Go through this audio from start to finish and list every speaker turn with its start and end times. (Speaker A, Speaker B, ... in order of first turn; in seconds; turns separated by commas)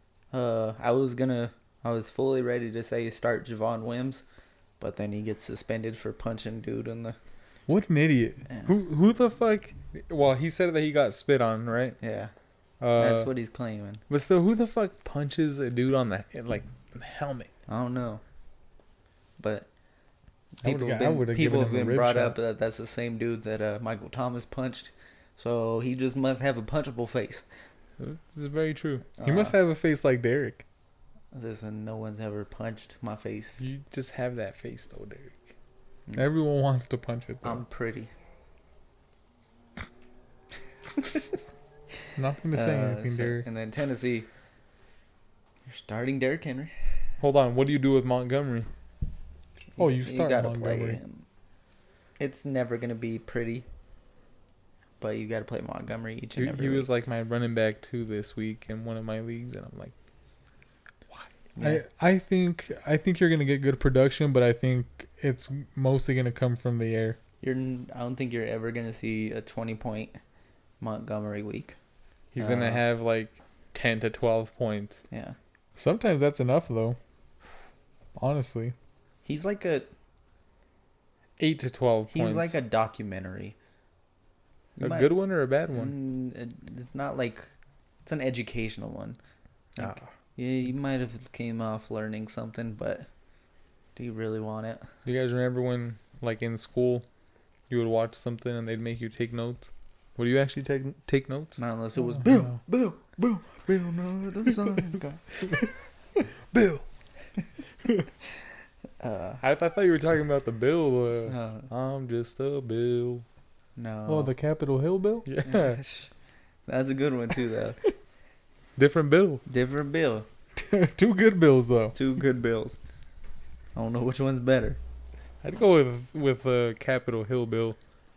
Speaker A: 0.3-4.2, Speaker A: 4.8-7.2, Speaker B: 7.7-8.5, Speaker C: 8.7-12.0, Speaker A: 12.0-12.3, Speaker C: 12.8-13.3, Speaker A: 13.0-14.0, Speaker C: 14.1-17.5, Speaker A: 17.7-18.2, Speaker A: 19.4-19.7, Speaker A: 20.6-27.4, Speaker B: 20.6-22.4, Speaker C: 28.0-29.1, Speaker A: 29.2-29.6, Speaker B: 29.2-30.6, Speaker A: 31.3-33.6, Speaker C: 33.6-35.4, Speaker B: 36.1-37.6, Speaker A: 37.4-38.1, Speaker B: 42.2-43.5, Speaker A: 42.5-44.3, Speaker A: 45.6-46.7, Speaker C: 47.2-48.7, Speaker A: 49.8-51.2, Speaker B: 49.8-51.0, Speaker A: 52.2-53.7, Speaker A: 55.0-56.9, Speaker C: 56.4-59.9, Speaker A: 61.6-61.8, Speaker B: 61.6-67.2, Speaker A: 67.4-70.2, Speaker A: 70.8-71.8, Speaker C: 72.3-75.0, Speaker A: 72.4-72.8, Speaker A: 75.1-75.4, Speaker B: 75.8-77.0, Speaker B: 78.2-78.8, Speaker A: 79.2-79.9, Speaker C: 81.4-82.6, Speaker A: 82.1-83.5, Speaker A: 84.8-85.1, Speaker C: 84.8-86.0, Speaker A: 85.7-87.5, Speaker A: 88.1-89.2, Speaker A: 89.8-93.1, Speaker C: 89.8-90.1, Speaker A: 94.0-94.9, Speaker C: 95.0-97.1, Speaker C: 97.7-101.6, Speaker A: 101.6-105.6, Speaker B: 102.2-102.5, Speaker B: 106.5-106.8, Speaker A: 109.0-109.4, Speaker C: 109.4-113.2, Speaker A: 111.3-111.7, Speaker A: 113.8-114.3, Speaker B: 114.1-115.3, Speaker C: 115.2-115.8, Speaker A: 115.5-116.1, Speaker A: 116.7-117.8, Speaker C: 118.8-119.4, Speaker A: 119.5-120.3, Speaker B: 120.6-122.0, Speaker A: 122.0-122.8, Speaker A: 123.8-124.8, Speaker C: 125.4-127.8